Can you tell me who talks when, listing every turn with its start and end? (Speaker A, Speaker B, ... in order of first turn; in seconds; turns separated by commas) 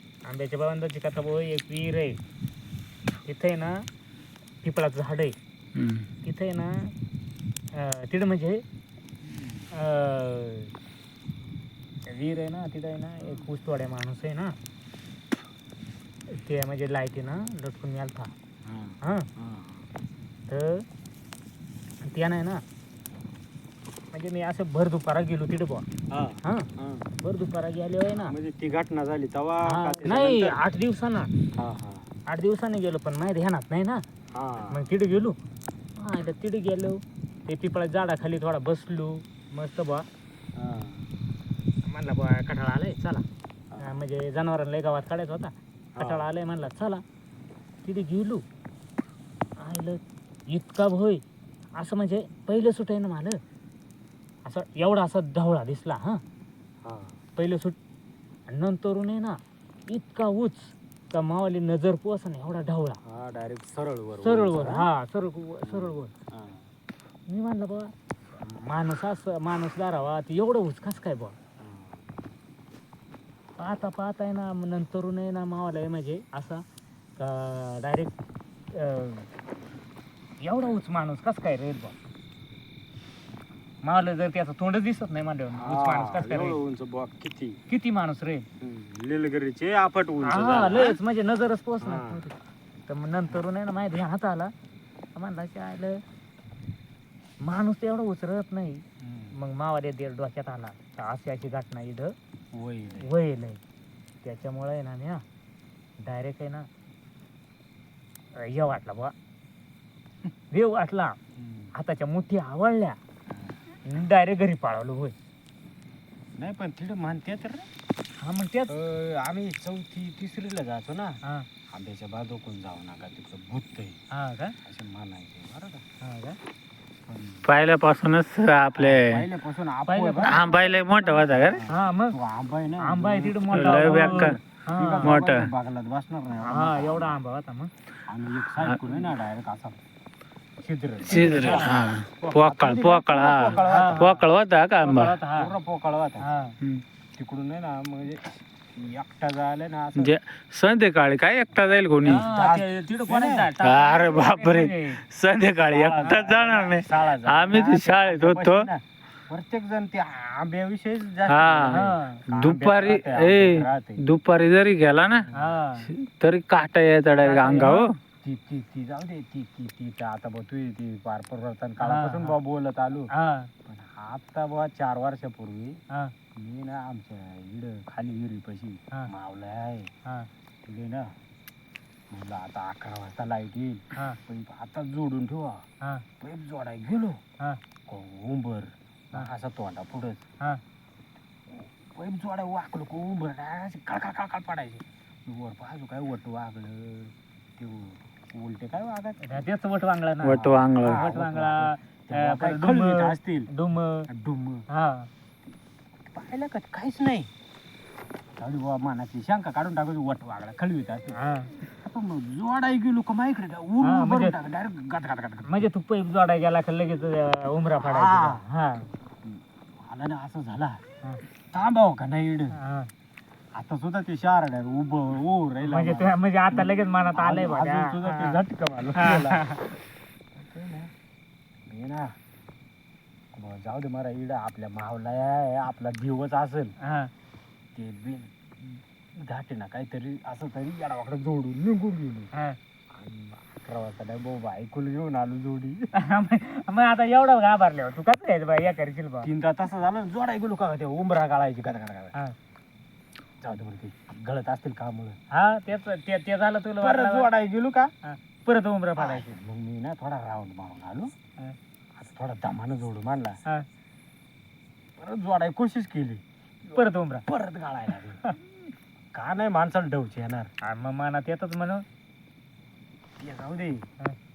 Speaker A: 0.3-2.2, Speaker A: 3.3-3.8, Speaker A: 4.6-5.3, Speaker B: 5.8-6.1, Speaker A: 6.2-6.9, Speaker A: 7.7-8.6, Speaker C: 9.2-9.7, Speaker A: 9.7-10.7, Speaker A: 12.1-14.6, Speaker C: 13.2-13.5, Speaker A: 16.3-18.3, Speaker C: 18.6-19.9, Speaker A: 19.0-19.3, Speaker A: 20.5-20.9, Speaker A: 22.0-22.6, Speaker A: 24.1-25.9, Speaker C: 26.1-27.1, Speaker A: 26.4-26.7, Speaker A: 27.2-28.4, Speaker C: 28.2-30.6, Speaker A: 29.7-31.3, Speaker C: 31.6-32.1, Speaker A: 32.3-34.0, Speaker C: 34.4-34.9, Speaker A: 34.7-35.4, Speaker A: 36.0-40.1, Speaker C: 40.6-41.1, Speaker A: 41.8-43.2, Speaker A: 43.8-47.0, Speaker C: 46.0-46.3, Speaker A: 47.8-48.4, Speaker A: 49.6-51.2, Speaker A: 51.8-53.4, Speaker A: 54.5-56.2, Speaker C: 56.9-57.2, Speaker A: 57.4-57.8, Speaker A: 58.5-63.0, Speaker C: 63.0-64.9, Speaker A: 64.2-66.1, Speaker C: 65.6-66.7, Speaker A: 67.3-67.9, Speaker A: 68.5-71.4, Speaker C: 71.6-72.1, Speaker A: 73.6-76.6, Speaker A: 77.2-78.2, Speaker A: 78.7-79.3, Speaker A: 80.4-82.0, Speaker A: 83.8-86.6, Speaker C: 85.5-87.6, Speaker A: 87.7-88.5, Speaker C: 88.6-91.0, Speaker A: 90.2-92.3, Speaker C: 91.8-92.3, Speaker A: 92.9-94.5, Speaker A: 95.2-96.0, Speaker A: 97.4-102.1, Speaker C: 99.0-99.4, Speaker C: 102.5-103.1, Speaker A: 103.0-103.6, Speaker A: 104.2-105.2, Speaker A: 106.0-106.7, Speaker A: 108.4-109.1, Speaker A: 110.5-111.2, Speaker C: 111.4-111.7, Speaker A: 111.7-113.0, Speaker C: 113.3-113.6, Speaker A: 113.8-115.2, Speaker C: 116.4-117.7, Speaker A: 118.2-118.7, Speaker C: 118.7-121.2, Speaker C: 121.7-124.0, Speaker A: 124.1-124.5, Speaker C: 124.6-125.8, Speaker A: 126.0-126.4, Speaker C: 127.1-127.5, Speaker B: 127.5-129.2, Speaker C: 128.8-137.2, Speaker A: 129.9-130.8, Speaker B: 130.2-131.7, Speaker A: 131.7-132.2, Speaker A: 132.8-135.2, Speaker B: 133.5-134.4, Speaker B: 135.1-135.5, Speaker A: 136.4-137.7, Speaker C: 138.1-139.8, Speaker C: 140.6-144.2, Speaker B: 141.1-145.2, Speaker A: 141.1-141.9, Speaker A: 143.6-144.1, Speaker A: 144.8-145.5, Speaker C: 145.3-146.3, Speaker A: 146.2-146.6, Speaker C: 147.2-150.2, Speaker B: 150.0-152.2, Speaker C: 152.0-153.5, Speaker A: 152.1-155.0, Speaker B: 153.6-158.7, Speaker C: 155.7-164.0, Speaker B: 161.3-165.3, Speaker A: 161.7-162.2, Speaker C: 165.3-165.6, Speaker A: 165.3-165.9, Speaker B: 165.9-167.9, Speaker A: 167.2-167.9, Speaker C: 167.5-173.1, Speaker A: 171.8-172.4, Speaker A: 173.1-173.5, Speaker C: 173.7-175.8, Speaker C: 176.4-179.9, Speaker C: 180.6-181.1, Speaker C: 182.1-185.6, Speaker C: 186.2-187.2, Speaker C: 187.9-190.2, Speaker C: 191.5-199.4, Speaker A: 199.2-204.1, Speaker B: 200.2-201.0, Speaker C: 200.3-203.5, Speaker C: 204.1-204.6, Speaker A: 204.7-205.1, Speaker C: 206.1-207.3, Speaker C: 208.4-215.7, Speaker A: 211.2-211.5, Speaker A: 213.8-214.4, Speaker A: 215.4-218.9, Speaker C: 217.8-218.4, Speaker C: 219.2-220.8, Speaker C: 221.5-222.6, Speaker A: 222.5-222.9, Speaker C: 223.5-229.6, Speaker A: 225.6-228.4, Speaker A: 229.0-229.6, Speaker C: 230.4-230.9, Speaker C: 231.7-232.2, Speaker C: 233.3-236.8, Speaker A: 236.8-237.1, Speaker C: 237.8-242.3, Speaker C: 242.9-245.9, Speaker A: 245.9-249.3, Speaker C: 249.2-252.1, Speaker C: 253.4-255.2, Speaker A: 255.3-257.3, Speaker C: 256.8-257.9, Speaker A: 258.1-259.4, Speaker C: 259.0-261.1, Speaker C: 262.0-263.4, Speaker C: 265.0-268.2, Speaker A: 266.7-267.2, Speaker C: 269.1-270.5, Speaker A: 270.6-271.9, Speaker C: 273.2-273.9